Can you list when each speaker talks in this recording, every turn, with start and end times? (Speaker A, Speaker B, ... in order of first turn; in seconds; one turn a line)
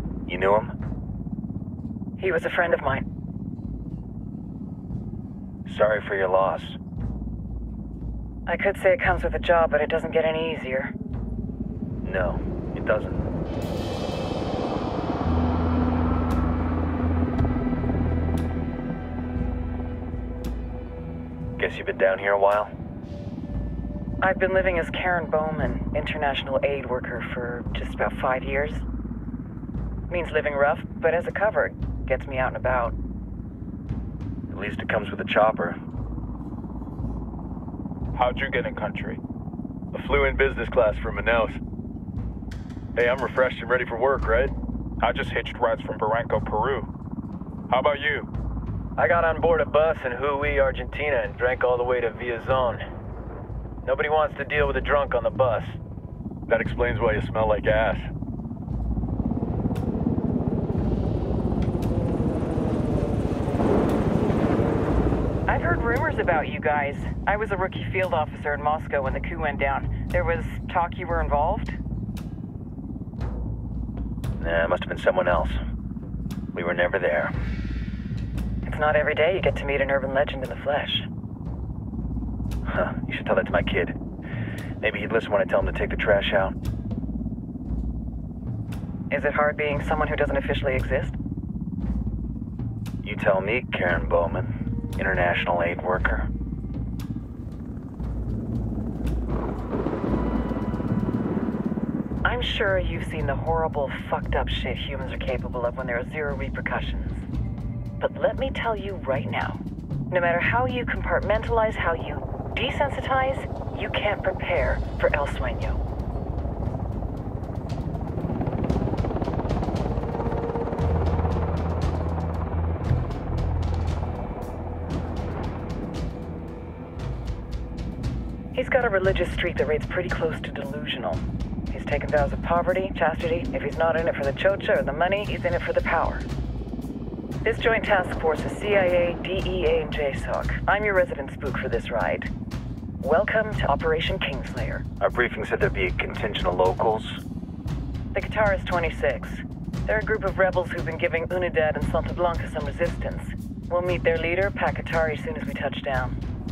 Speaker A: 0.3-0.7
Speaker B: 2.2-3.0
Speaker A: 5.7-6.8
Speaker B: 8.5-10.9
Speaker A: 12.0-13.3
Speaker A: 21.6-22.7
Speaker B: 24.2-28.8
Speaker B: 30.1-33.0
Speaker A: 34.5-35.8
Speaker C: 38.2-39.2
Speaker D: 39.9-41.6
Speaker D: 43.0-44.5
Speaker C: 45.0-46.9
Speaker D: 47.7-48.2
Speaker E: 49.0-52.9
Speaker E: 53.8-55.8
Speaker D: 56.5-58.1
Speaker B: 65.5-71.8
Speaker A: 74.4-75.6
Speaker A: 76.5-77.3
Speaker B: 78.7-81.1
Speaker A: 82.7-84.0
Speaker A: 84.8-86.5
Speaker B: 89.1-91.2
Speaker A: 93.0-96.3
Speaker B: 102.2-107.2
Speaker B: 108.0-115.8
Speaker B: 128.5-136.2
Speaker B: 137.4-142.3
Speaker B: 143.0-144.8
Speaker A: 145.0-147.2
Speaker B: 148.1-156.2